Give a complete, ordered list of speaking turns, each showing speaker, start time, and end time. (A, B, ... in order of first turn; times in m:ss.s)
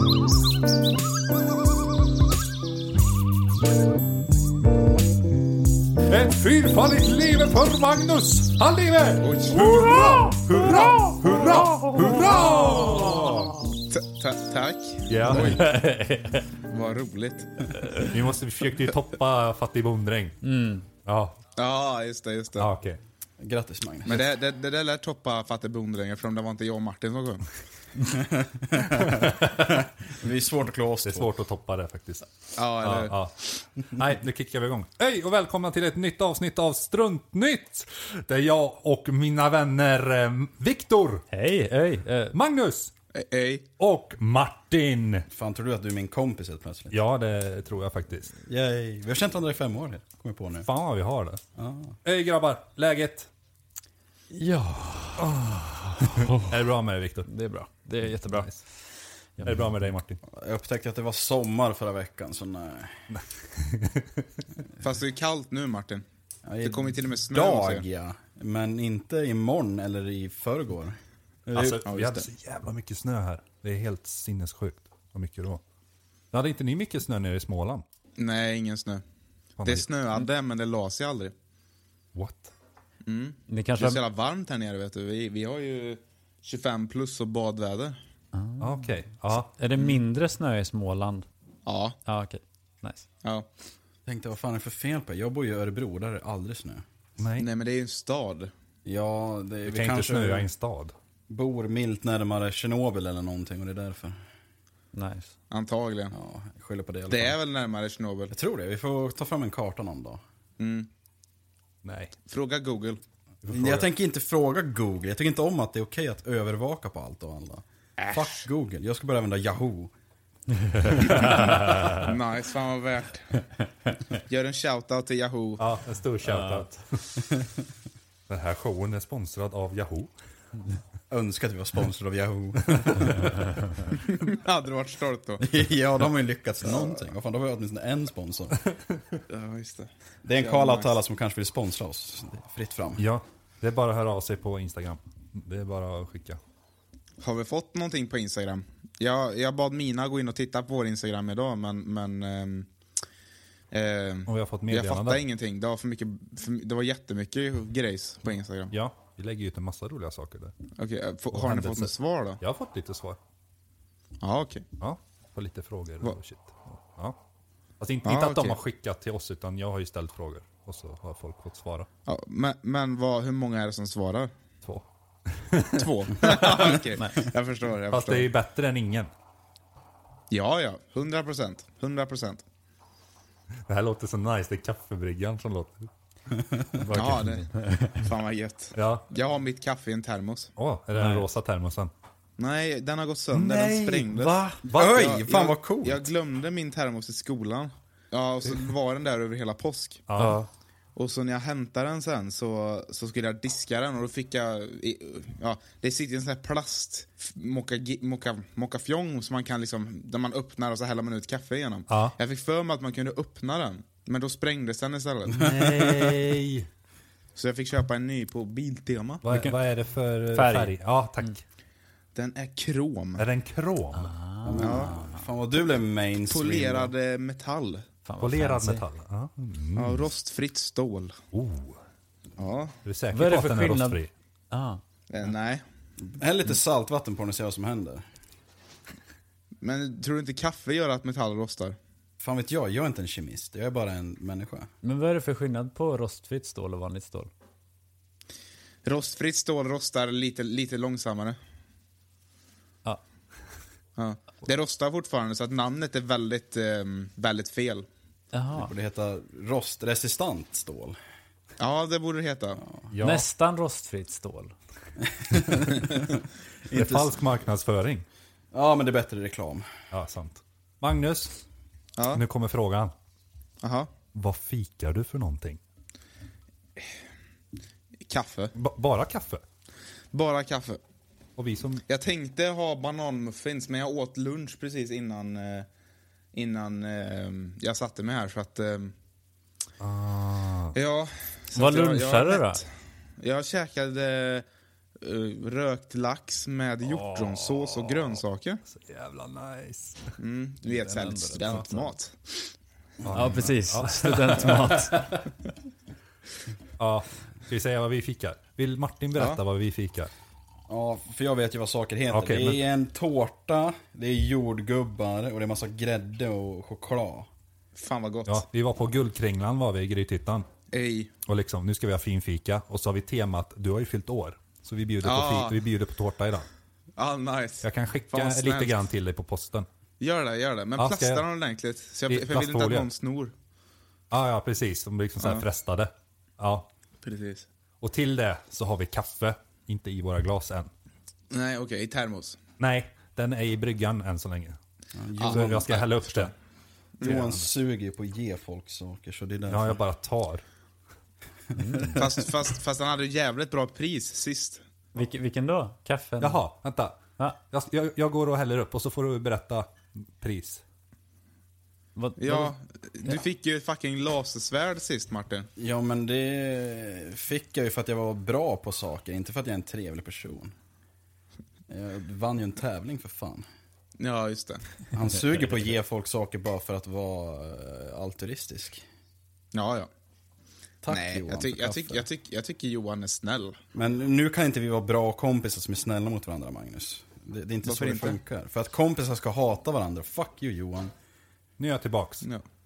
0:06.1-0:13.6 A
0:09.2-0:11.7 B
0:13.0-0:13.4 C
0:13.9-0:15.7 B
0:15.1-0:15.6 A
0:15.3-0:16.5 C
0:16.7-0:18.0 B
0:17.8-0:18.1 C
0:18.0-0:20.4 A
0:20.4-0:20.8 C
0:21.0-0:21.4 A
0:21.6-0:22.7 B
0:22.6-0:23.0 A
0:23.4-0:24.3 D
0:24.0-0:27.4 B
0:28.1-0:31.3 D
0:31.0-0:32.3 A
0:32.6-0:33.2 B
0:32.8-0:41.2 A
0:41.3-0:42.4 C
0:42.3-0:42.9 A
0:43.1-0:43.7 B
0:43.8-0:45.2 A
0:45.3-0:47.0 D
0:46.9-0:48.3 A
0:48.5-0:50.7 D
0:50.6-0:51.4 A
0:51.5-0:52.0 D
0:52.0-0:53.3 A
0:54.3-0:56.5 C
0:55.2-0:57.3 A
0:57.2-0:58.6 C
0:58.3-0:58.6 A
0:59.4-0:59.7 C
0:59.4-1:00.2 A
1:00.3-1:03.1 D
1:03.1-1:04.2 A
1:04.8-1:06.0 B
1:06.4-1:11.8 D
1:06.6-1:07.8 B
1:11.5-1:15.6 A
1:11.8-1:12.3 B
1:16.3-1:17.8 A
1:18.2-1:19.0 B
1:19.6-1:19.9 A
1:19.6-1:21.3 B
1:22.1-1:22.5 A
1:23.0-1:28.0 B
1:23.5-1:24.0 C
1:28.3-1:31.3 C
1:28.6-1:29.5 A
1:31.6-1:32.0 B
1:32.0-1:33.0 C
1:34.0-1:36.8 D
1:37.2-1:37.5 A
1:37.4-1:38.5 B
1:38.8-1:40.5 D
1:39.6-1:40.9 A
1:41.3-1:44.2 D
1:44.9-1:45.3 C
1:45.5-1:46.1 B
1:46.1-1:47.4 D
1:47.1-1:48.3 B
1:48.3-1:50.2 D
1:50.6-1:50.9 B
1:51.8-1:52.1 A
1:52.2-1:53.0 B
1:53.4-1:53.9 A
1:53.5-1:59.9 D
1:58.0-1:58.4 B
2:00.7-2:02.1 C
2:01.2-2:03.4 B
2:04.1-2:05.6 B
2:05.6-2:07.0 A
2:06.2-2:06.8 C
2:08.3-2:10.1 A
2:11.1-2:13.4 D
2:12.8-2:13.1 A
2:14.0-2:15.6 B
2:15.4-2:18.6 D
2:19.3-2:20.9 B
2:20.2-2:23.0 D
2:23.0-2:26.4 A
2:27.2-2:32.7 B
2:33.7-2:38.7 B
2:34.3-2:35.2 A
2:38.7-2:40.5 A
2:40.8-2:42.4 B
2:41.3-2:43.2 A
2:44.2-2:44.6 B
2:44.8-2:47.2 A
2:47.8-2:51.9 A
2:48.0-2:48.6 B
2:52.0-2:54.3 B
2:54.6-2:56.6 A
2:55.7-2:58.3 B
2:57.9-2:59.1 A
3:00.3-3:02.4 B
3:03.7-3:05.9 A
3:06.3-3:06.6 D
3:06.7-3:08.1 C
3:06.9-3:07.4 B
3:08.0-3:10.5 B
3:08.7-3:09.1 A
3:10.6-3:11.9 A
3:10.9-3:11.3 C
3:12.4-3:20.0 B
3:13.3-3:15.0 A
3:14.1-3:14.6 C
3:14.7-3:16.1 D
3:20.1-3:20.4 A
3:20.2-3:20.5 C
3:20.9-3:35.5 B
3:31.9-3:32.2 A
3:35.3-3:36.7 C
3:35.4-3:36.1 D
3:37.4-3:39.2 B
3:39.2-3:41.4 A
3:39.3-3:39.6 C
3:40.3-3:41.3 C
3:42.1-3:43.2 B
3:43.2-3:44.1 A
3:43.9-3:45.2 C
3:44.4-3:46.9 D
3:44.6-3:45.0 B
3:46.3-3:47.8 B
3:48.0-3:48.8 C
3:48.2-3:50.0 A
3:49.7-3:51.2 B
3:51.3-3:51.8 A
3:52.4-3:52.7 B
3:52.8-3:54.1 A
3:53.1-3:54.0 C
3:54.5-3:54.8 C
3:55.1-3:55.6 B
3:56.1-3:58.1 D
3:59.6-4:01.8 B
4:02.2-4:04.7 D
4:04.8-4:07.3 C
4:08.8-4:11.4 B
4:14.0-4:17.9 B
4:18.3-4:18.7 C
4:18.6-4:21.0 D
4:21.6-4:22.6 B
4:22.9-4:23.2 A
4:23.0-4:24.5 C
4:25.0-4:27.2 D
4:25.3-4:25.7 A
4:26.7-4:28.0 A
4:28.5-4:29.7 D
4:29.9-4:31.4 A
4:32.0-4:32.2 B
4:32.1-4:32.9 A
4:33.6-4:33.9 B
4:34.1-4:35.6 A
4:38.1-4:38.5 B
4:38.5-4:39.4 A
4:40.1-4:40.8 B
4:41.4-4:41.8 A
4:41.9-4:45.7 B
4:46.3-4:48.9 B
4:49.8-4:50.8 A
4:50.7-4:52.6 B
4:51.5-4:52.6 C
4:53.2-4:54.4 B
4:55.0-4:58.6 B
4:56.9-4:57.9 C
4:58.7-5:00.2 A
5:00.2-5:02.5 B
5:00.7-5:01.9 C
5:03.0-5:04.9 A
5:03.1-5:05.2 C
5:06.8-5:10.1 A
5:10.7-5:17.3 D
5:12.1-5:12.6 A
5:17.7-5:18.4 B
5:18.2-5:20.4 A
5:20.7-5:21.1 B
5:21.2-5:26.5 A
5:25.0-5:25.6 B
5:27.0-5:28.8 B
5:27.6-5:29.7 A
5:30.0-5:33.3 B
5:30.8-5:31.2 A
5:32.1-5:32.8 A
5:34.1-5:36.7 A
5:37.0-5:37.4 B
5:37.8-5:40.7 A
5:41.3-5:42.4 B
5:42.6-5:44.6 A
5:44.9-5:45.6 D
5:45.2-5:46.3 B
5:45.2-5:46.3 A
5:47.0-5:47.3 B
5:47.0-5:49.8 D
5:49.5-5:50.4 A
5:51.5-5:52.0 C
5:51.9-5:54.6 B
5:54.9-5:56.4 C
5:56.2-6:00.6 A
6:02.0-6:02.5 C
6:02.2-6:05.5 B
6:05.6-6:10.5 D
6:11.7-6:13.5 D
6:14.0-6:14.6 B
6:14.9-6:18.8 D
6:19.5-6:19.9 B
6:20.8-6:22.0 D
6:20.9-6:23.6 B
6:23.7-6:30.9 D
6:27.6-6:28.2 B
6:31.6-6:32.3 A